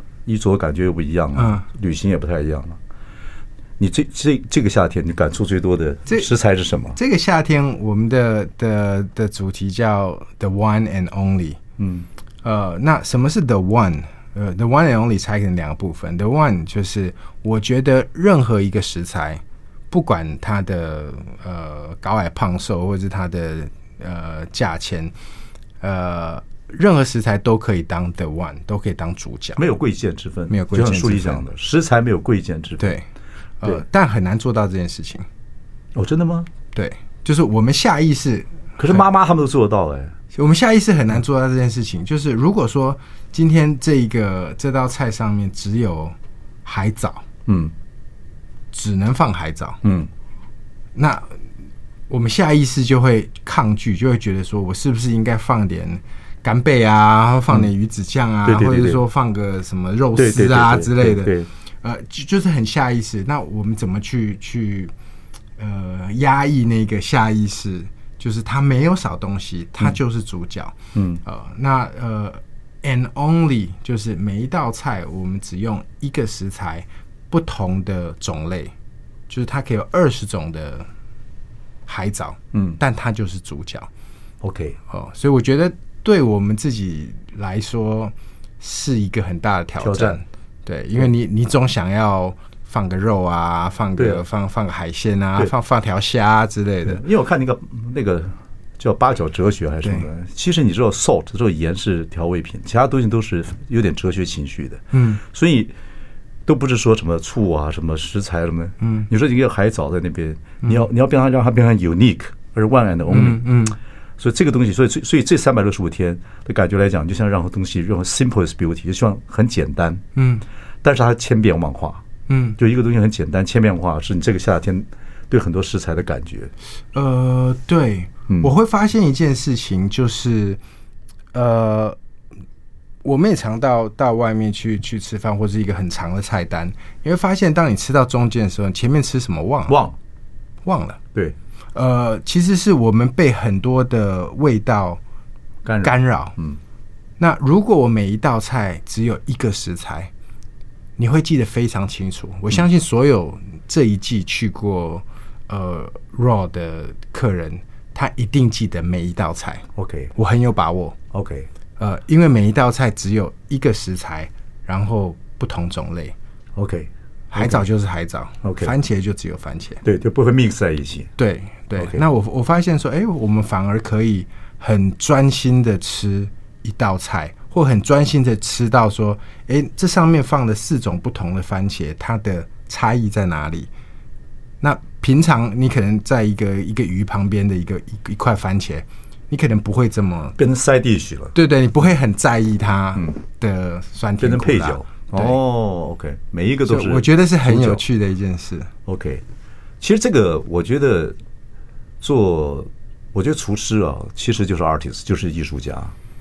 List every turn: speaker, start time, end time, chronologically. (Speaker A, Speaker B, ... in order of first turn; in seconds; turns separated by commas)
Speaker A: 0.3-2.8, Speaker B: 1.4-1.6, Speaker A: 3.8-7.0, Speaker B: 7.0-11.6, Speaker A: 11.8-12.1, Speaker B: 12.4-25.1, Speaker B: 25.8-29.6, Speaker A: 29.6-32.9, Speaker B: 30.5-31.4, Speaker B: 32.8-33.0, Speaker B: 33.6-35.3, Speaker A: 36.0-36.5, Speaker B: 36.7-39.1, Speaker A: 38.8-40.1, Speaker B: 40.3-47.2, Speaker A: 47.5-47.7, Speaker B: 48.7-49.8, Speaker A: 49.8-50.1, Speaker B: 51.0-51.4, Speaker B: 52.1-64.9, Speaker A: 58.5-59.0, Speaker A: 60.2-61.5, Speaker B: 65.6-78.7, Speaker A: 71.0-71.2, Speaker B: 79.3-80.9, Speaker B: 81.9-83.9, Speaker A: 82.5-82.8, Speaker A: 84.4-84.8, Speaker B: 84.9-97.0, Speaker A: 89.8-90.2, Speaker A: 94.0-94.2, Speaker A: 96.8-105.7, Speaker B: 104.9-105.2, Speaker A: 106.5-113.6, Speaker B: 108.8-109.1, Speaker B: 113.1-113.8, Speaker A: 114.2-120.0, Speaker B: 120.2-120.4, Speaker A: 120.8-122.0, Speaker B: 122.3-122.6, Speaker A: 122.6-126.5, Speaker B: 126.9-130.6, Speaker B: 131.3-132.0, Speaker B: 133.0-139.8, Speaker A: 139.7-140.0, Speaker B: 140.7-141.0, Speaker B: 141.8-145.0, Speaker A: 145.7-146.6, Speaker B: 145.8-146.4, Speaker B: 147.2-150.1, Speaker B: 151.0-161.0, Speaker A: 159.8-160.1, Speaker A: 161.1-161.5, Speaker B: 161.8-166.2, Speaker A: 166.6-167.7, Speaker B: 167.3-169.8, Speaker A: 168.4-168.7, Speaker A: 169.8-171.1, Speaker B: 171.2-183.7, Speaker A: 171.8-172.0, Speaker B: 184.6-190.4, Speaker A: 190.4-191.3, Speaker B: 191.3-195.4, Speaker A: 194.2-197.8, Speaker B: 196.7-198.7, Speaker A: 198.9-199.2, Speaker A: 199.8-201.2, Speaker A: 202.0-205.9